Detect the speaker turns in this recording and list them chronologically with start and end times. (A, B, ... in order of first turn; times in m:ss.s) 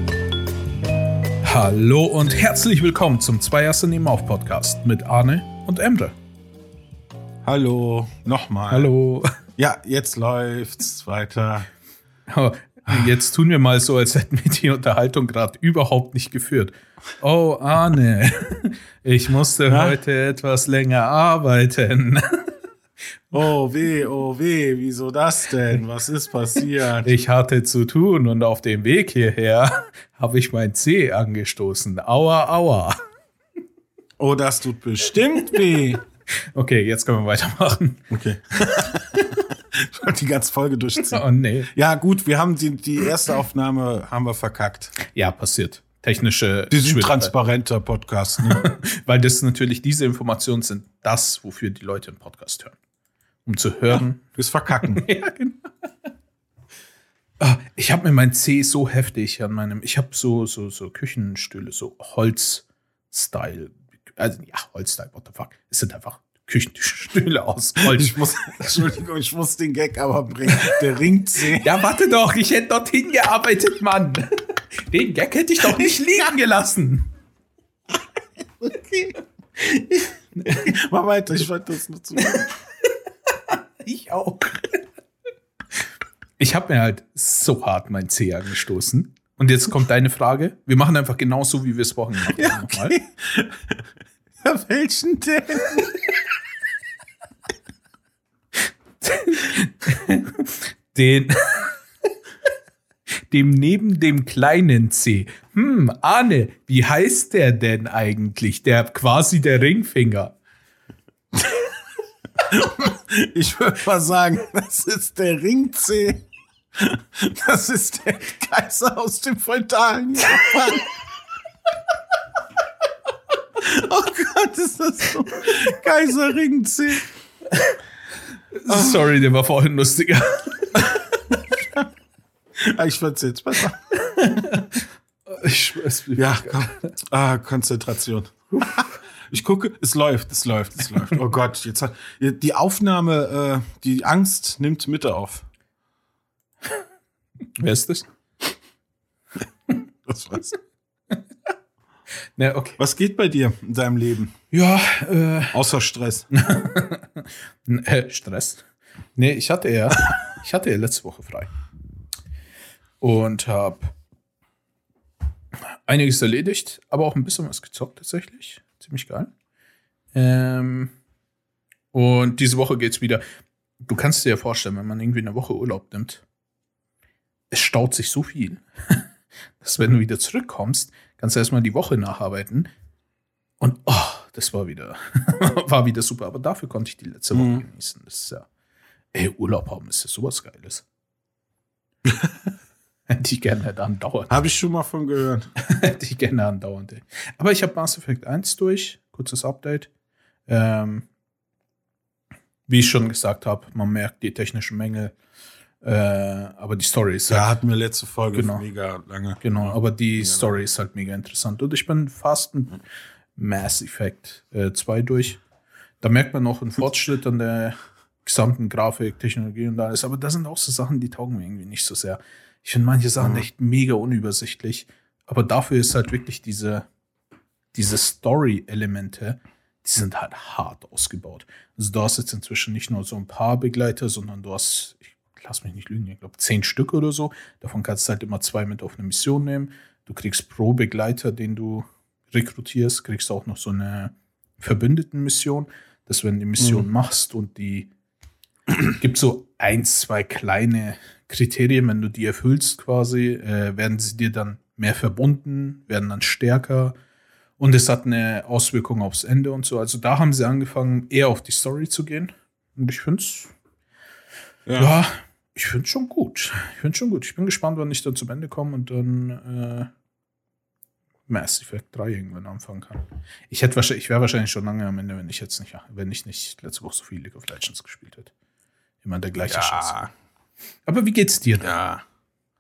0:01.4-0:06.2 A
0:07.4-0:08.9 B
0:08.7-0:09.3 A
0:09.6-0:11.7 B
0:12.3-0:22.6 A
0:19.7-0:20.0 B
0:23.3-0:27.2 B
0:27.0-0:33.0 A
0:34.2-0:36.0 B
0:36.6-0:39.0 A
0:38.1-0:45.0 B
0:41.1-0:41.7 A
0:45.0-0:47.3 A
0:46.7-0:48.6 B
0:48.4-0:52.8 A
0:53.4-0:54.2 A
0:53.9-0:55.0 B
0:54.8-0:55.7 A
0:57.4-1:08.7 A
1:07.8-1:11.7 B
1:11.5-1:17.1 A
1:18.6-1:19.1 B
1:20.0-1:20.6 A
1:20.5-1:22.5 B
1:23.5-1:24.8 A
1:26.4-1:33.0 A
1:32.3-1:33.8 B
1:34.4-1:35.9 B
1:39.0-1:41.8 A
1:43.3-1:50.4 A
1:52.4-1:56.2 B
1:56.8-2:00.9 B
2:03.6-2:07.1 B
2:08.5-2:10.9 A
2:08.7-2:09.0 B
2:10.8-2:11.9 B
2:12.6-2:13.8 B
2:14.0-2:16.9 A
2:16.2-2:25.5 B
2:27.6-2:28.1 A
2:30.1-2:30.5 B
2:32.4-2:32.8 A
2:32.8-2:34.4 B
2:34.5-2:35.6 A
2:35.5-2:36.3 B
2:36.3-2:41.5 A
2:43.0-2:44.0 A
2:45.9-2:49.3 A
2:50.1-2:51.0 A
2:51.9-2:53.2 A
2:53.8-2:56.2 A
2:57.5-2:59.1 A
2:59.6-3:02.7 A
3:03.6-3:08.5 A
3:07.3-3:07.6 B
3:09.1-3:10.8 A
3:13.1-3:14.3 A
3:14.3-3:15.5 B
3:15.6-3:19.9 A
3:20.5-3:21.1 A
3:22.7-3:25.1 A
3:25.8-3:27.5 A
3:27.3-3:30.4 B
3:28.3-3:28.6 A
3:29.4-3:32.8 A
3:33.4-3:35.4 A
3:36.0-3:46.9 A
3:47.7-4:07.9 A
4:06.6-4:06.9 B
4:08.7-4:17.0 A
4:17.6-4:23.5 A
4:24.7-4:25.0 B
4:24.8-4:29.9 A
4:31.3-4:38.3 A
4:39.0-4:39.9 A
4:39.4-4:40.1 B
4:40.9-4:41.7 A
4:41.6-4:42.0 B